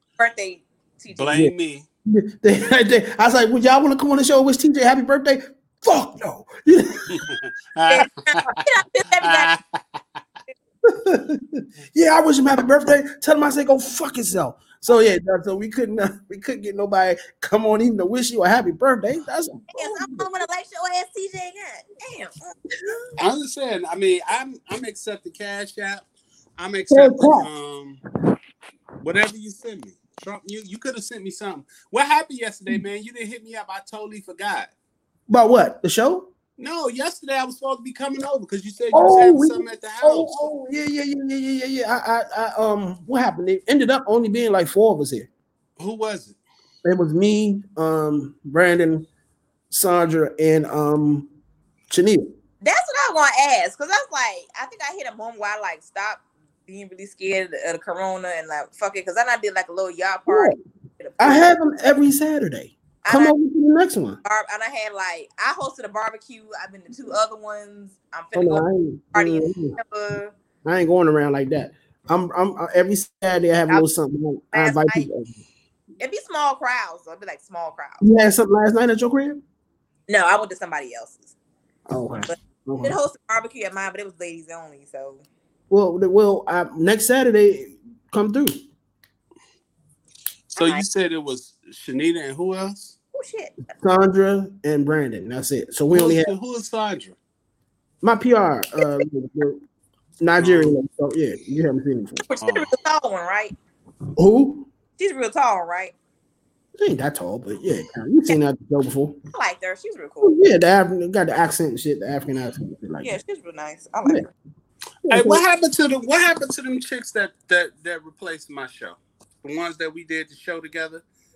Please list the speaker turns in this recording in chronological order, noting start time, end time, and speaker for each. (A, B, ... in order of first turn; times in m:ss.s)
0:00.2-0:01.4 A
0:01.1-0:01.8 B
0:02.0-0:07.3 C
0:07.1-0:08.6 B
0:07.9-0:09.5 A
0:09.2-0:10.2 B
0:10.8-0:20.3 C
0:19.7-0:22.5 A
0:23.2-0:26.0 B
0:26.6-0:28.0 B
0:26.9-0:27.5 C
0:29.0-0:34.7 B
0:35.3-0:36.3 C
0:36.6-0:40.4 B
0:38.9-0:45.3 C
0:45.8-0:46.4 B
0:46.8-0:49.1 C
0:49.7-0:51.3 C
0:51.9-0:52.3 C
0:52.6-1:01.6 A
1:00.3-1:00.6 C
1:01.2-1:04.2 C
1:03.0-1:03.4 A
1:04.2-1:10.3 A
1:08.3-1:09.8 C
1:10.6-1:15.3 C
1:14.5-1:15.1 A
1:16.0-1:18.0 A
1:18.0-1:19.4 C
1:20.1-1:21.3 A
1:21.9-1:23.0 C
1:22.3-1:25.2 A
1:25.7-1:28.6 C
1:30.5-1:32.9 B
1:30.6-1:30.8 A
1:33.1-1:33.5 A
1:33.8-1:36.3 C
1:35.9-1:37.2 B
1:38.0-1:39.6 C
1:40.2-1:42.2 C
1:40.4-1:40.8 B
1:42.3-1:43.5 A
1:42.4-1:42.7 B
1:44.2-1:44.7 C
1:45.0-1:45.9 A
1:46.8-1:49.2 C
1:49.3-1:50.4 A
1:50.2-1:53.1 C
1:53.0-1:54.3 A
1:55.0-1:55.4 C
1:55.1-2:01.0 B